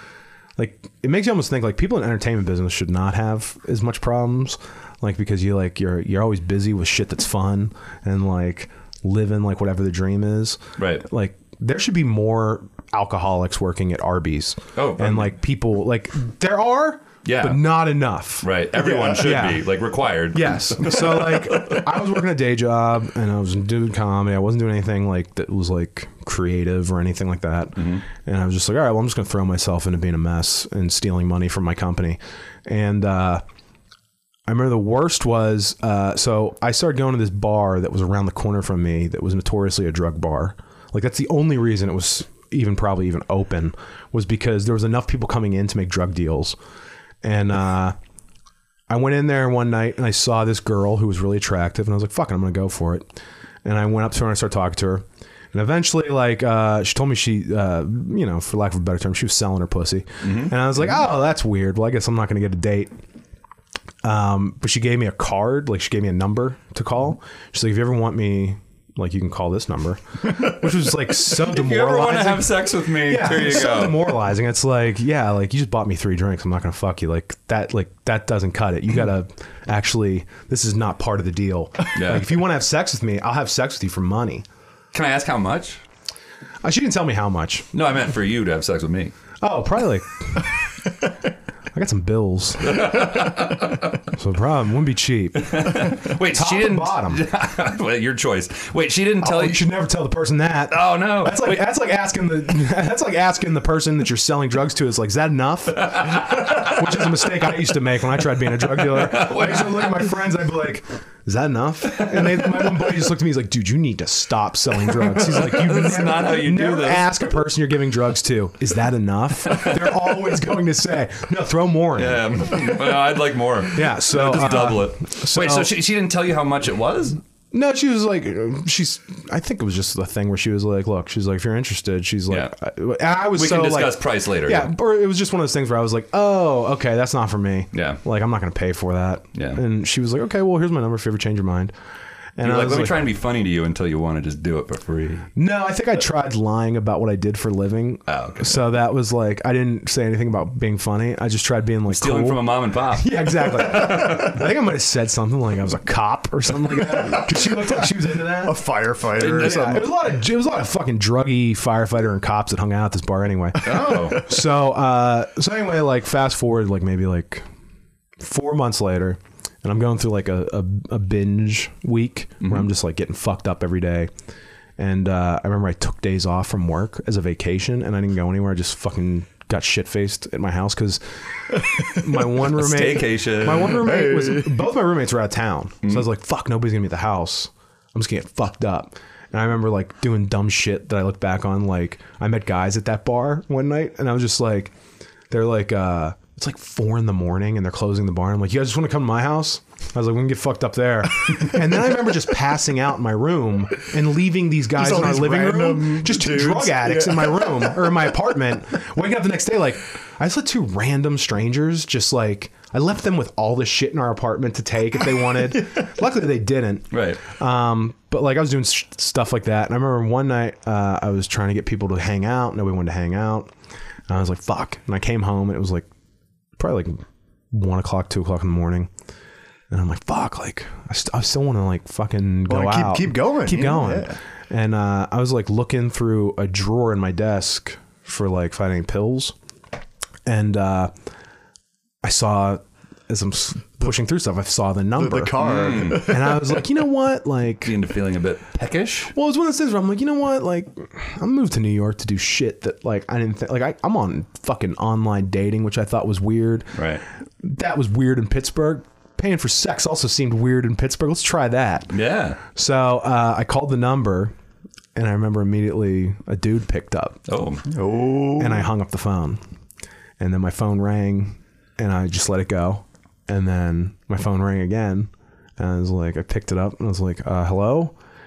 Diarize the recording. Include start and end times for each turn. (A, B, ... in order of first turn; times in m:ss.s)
0:00.6-0:19.7 A
0:10.8-0:11.0 B
0:14.8-0:15.3 B
0:17.2-0:17.7 B
0:18.4-0:21.8 B
0:20.3-0:33.4 A
0:27.8-0:28.0 B
0:34.5-0:46.6 A
0:47.2-0:48.0 A
0:48.9-0:53.1 A
0:53.6-1:02.9 A
1:00.2-1:00.5 B
1:04.0-1:24.4 A
1:11.2-1:14.2 B
1:21.9-1:22.4 B
1:24.9-1:25.8 B
1:26.6-1:27.7 A
1:27.7-1:29.1 B
1:29.4-1:30.5 A
1:31.7-1:33.4 A
1:32.6-1:34.0 B
1:34.1-1:37.2 A
1:35.4-1:39.6 B
1:39.2-2:02.5 A
1:40.7-1:41.7 B
1:45.9-1:46.8 B
1:48.7-1:50.0 B
1:52.0-1:52.6 B
1:54.8-1:57.2 B
2:02.0-2:07.2 B
2:03.7-2:05.7 A
2:07.5-2:21.7 A
2:13.3-2:14.7 B
2:17.7-2:18.0 B
2:19.3-2:19.6 B
2:22.4-2:23.0 A
2:22.4-2:25.3 B
2:25.4-2:38.6 A
2:28.1-2:28.6 B
2:31.9-2:34.4 B
2:37.4-2:39.9 C
2:39.2-2:39.8 B
2:39.2-2:47.4 A
2:43.6-2:44.3 B
2:48.2-2:54.1 A
2:52.4-2:52.7 B
2:54.8-3:01.0 A
3:01.5-3:14.7 A
3:02.3-3:03.9 B
3:03.8-3:04.7 C
3:15.3-3:43.5 A
3:24.8-3:28.1 C
3:36.9-3:37.2 B
3:44.1-3:45.9 A
3:46.6-3:48.9 A
3:49.7-3:59.3 A
3:52.5-3:54.2 C
4:00.2-4:00.9 A
4:02.0-4:07.8 A
4:05.0-4:06.6 C
4:05.4-4:06.2 B
4:07.6-4:09.1 B
4:09.1-4:16.8 A
4:16.7-4:17.0 B
4:17.4-4:24.3 A
4:21.9-4:22.4 B
4:24.9-4:27.2 A
4:27.3-4:27.6 B
4:27.7-4:28.7 C
4:28.4-4:29.4 A
4:30.2-4:37.9 A